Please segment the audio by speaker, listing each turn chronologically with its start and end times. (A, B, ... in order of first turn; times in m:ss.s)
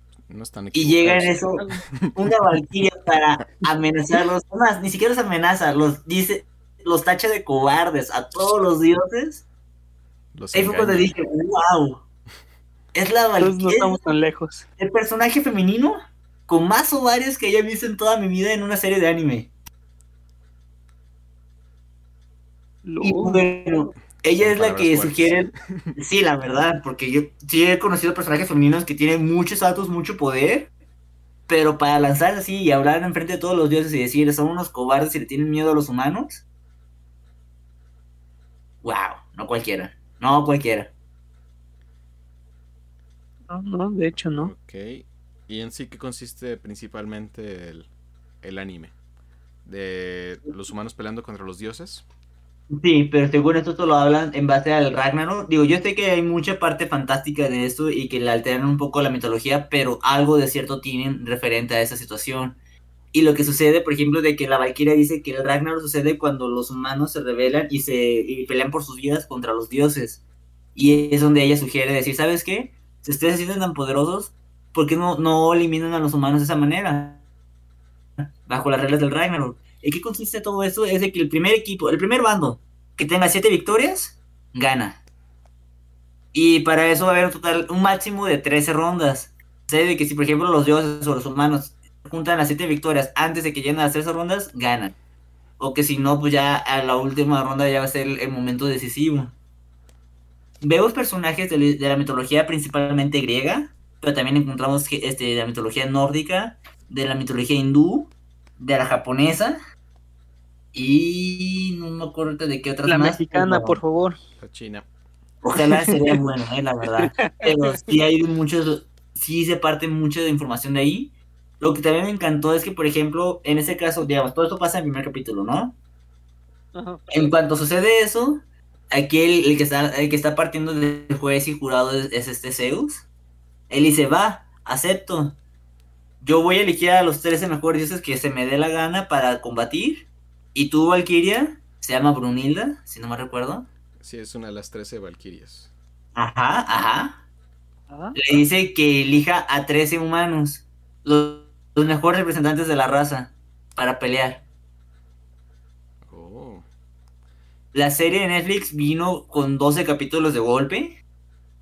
0:00.3-0:02.1 A
0:00.7-0:09.4 B
0:10.3-0:11.1 A
0:10.5-0:12.0 B
0:12.9-0:14.0 B
0:13.4-0:14.6 C
0:14.8-0:19.5 B
0:22.8-0:23.5 C
0:23.0-0:30.7 B
0:24.4-0:25.9 A
0:31.5-0:36.4 B
0:38.8-0:40.9 B
0:43.5-0:44.5 C
0:44.3-0:47.9 A
0:48.4-0:48.9 A
0:49.6-0:52.0 A
0:52.7-1:02.6 B
1:03.1-1:10.2 B
1:10.7-1:17.2 B
1:18.4-1:25.0 B
1:26.3-1:34.9 B
1:35.6-1:39.3 B
1:40.6-1:49.6 B
1:50.7-1:53.8 B
1:52.8-1:54.2 C
1:54.4-1:54.8 A
1:55.4-2:05.8 B
1:57.0-1:57.9 C
2:06.7-2:07.0 C
2:07.1-2:13.0 B
2:13.7-2:15.4 B
2:16.2-2:23.7 B
2:24.0-2:25.7 A
2:26.1-2:27.2 B
2:27.9-2:28.2 C
2:28.1-2:34.4 B
2:36.1-2:36.6 A
2:37.7-2:41.0 B